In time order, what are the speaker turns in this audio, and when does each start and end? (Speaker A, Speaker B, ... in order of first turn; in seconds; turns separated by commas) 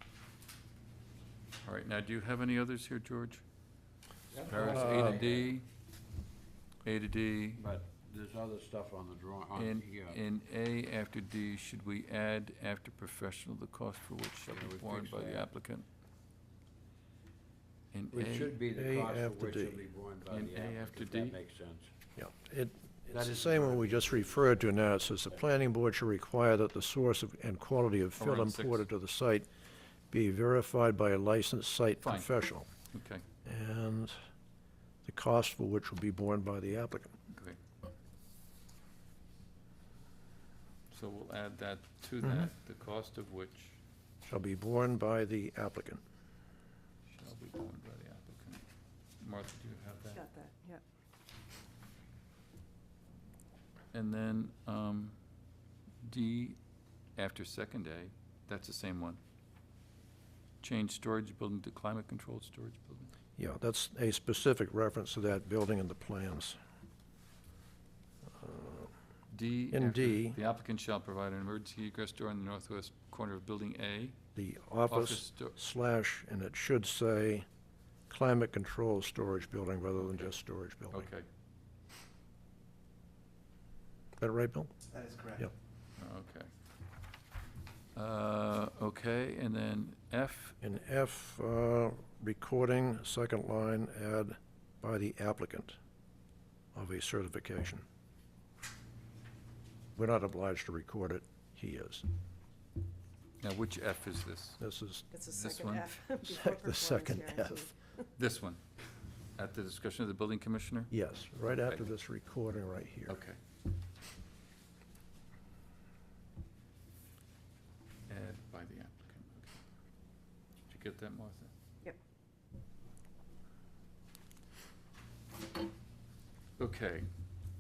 Speaker A: 1.6-3.4, Speaker B: 4.3-5.5, Speaker A: 4.5-5.7, Speaker C: 4.6-5.2, Speaker A: 6.8-7.6, Speaker B: 7.6-10.2, Speaker A: 9.6-15.9, Speaker B: 14.5-15.5, Speaker A: 17.9-18.5, Speaker B: 18.1-21.9, Speaker C: 18.8-19.8, Speaker A: 20.3-21.4, Speaker C: 22.2-29.5, Speaker B: 23.1-25.5, Speaker A: 28.2-28.9, Speaker C: 30.1-32.7, Speaker A: 32.0-32.4, Speaker A: 32.9-33.2, Speaker C: 33.5-34.1, Speaker C: 35.0-37.2, Speaker A: 37.3-37.6, Speaker A: 40.9-43.8, Speaker C: 44.3-46.0, Speaker A: 47.1-48.6, Speaker A: 49.2-50.2, Speaker D: 50.1-50.8, Speaker A: 53.9-55.2, Speaker A: 56.0-56.6, Speaker A: 57.2-59.2, Speaker A: 60.6-63.1, Speaker C: 63.4-66.6, Speaker C: 68.4-68.9, Speaker A: 69.3-74.2, Speaker C: 69.7-70.4, Speaker C: 74.3-77.5, Speaker A: 74.9-75.5, Speaker C: 78.1-81.1, Speaker A: 80.0-80.3, Speaker A: 80.9-81.3, Speaker C: 84.2-85.5, Speaker A: 86.0-86.5, Speaker A: 88.0-90.5, Speaker C: 90.6-95.8, Speaker C: 96.7-97.8, Speaker C: 100.0-102.0, Speaker A: 103.4-104.6, Speaker C: 104.6-105.0, Speaker D: 105.1-108.0, Speaker A: 105.2-105.9, Speaker C: 106.2-107.7, Speaker A: 108.2-108.6, Speaker A: 109.4-110.9, Speaker C: 110.9-113.2, Speaker A: 113.1-113.4, Speaker A: 118.1-119.6, Speaker A: 120.7-121.5, Speaker A: 126.6-127.1